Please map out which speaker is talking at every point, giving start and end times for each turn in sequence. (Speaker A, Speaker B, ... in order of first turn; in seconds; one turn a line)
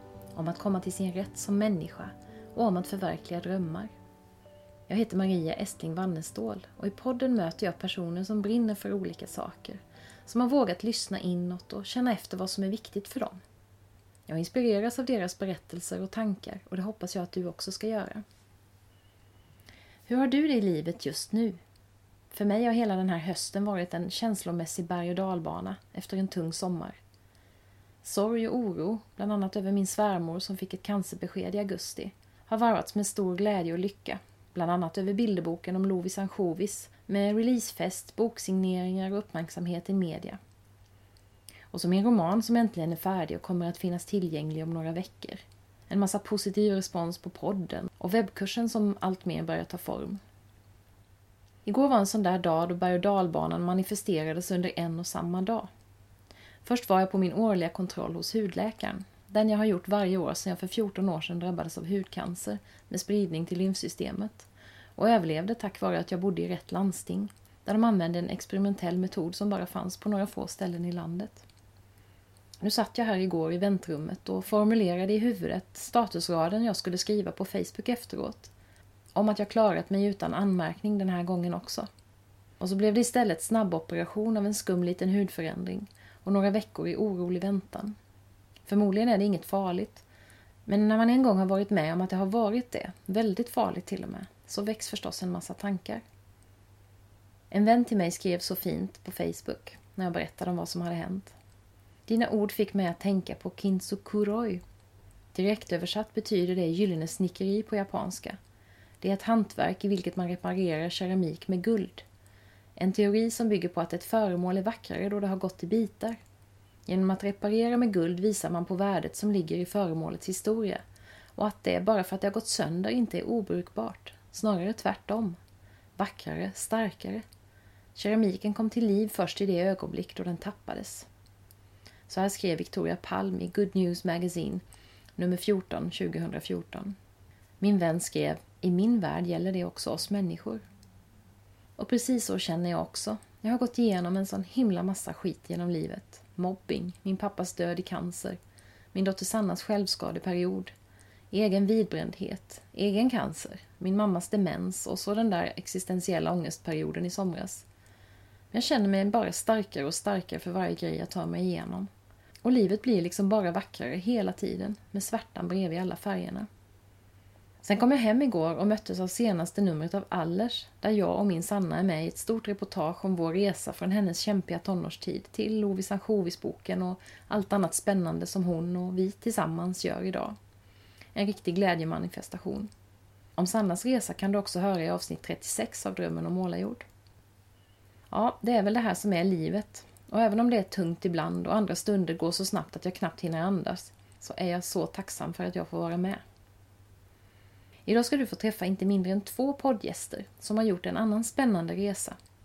Speaker A: 0.3-3.9
Speaker A: 4.9-13.4
Speaker A: 14.3-18.2
Speaker A: 20.1-21.6
Speaker A: 22.3-27.0
Speaker A: 28.0-40.4
Speaker A: 41.7-50.2
Speaker A: 51.7-55.7
Speaker A: 56.6-71.4
Speaker A: 72.6-78.5
Speaker A: 79.2-81.9
Speaker A: 82.6-88.0
Speaker A: 88.7-90.0
Speaker A: 90.7-96.0
Speaker A: 97.5-101.3
Speaker A: 102.1-104.6
Speaker A: 105.3-108.4
Speaker A: 109.0-112.0
Speaker A: 112.8-116.2
Speaker A: 116.9-120.8
Speaker A: 121.4-125.4
Speaker A: 126.0-127.2
Speaker A: 128.0-131.1
Speaker A: 132.1-134.6
Speaker A: 135.2-137.0
Speaker A: 137.6-140.6
Speaker A: 141.8-148.4
Speaker A: 148.9-150.7
Speaker A: 151.3-157.6
Speaker A: 158.5-161.9
Speaker A: 162.4-166.5
Speaker A: 167.6-180.4
Speaker A: 181.2-182.7
Speaker A: 183.4-186.8
Speaker A: 188.1-196.2
Speaker A: 197.9-202.2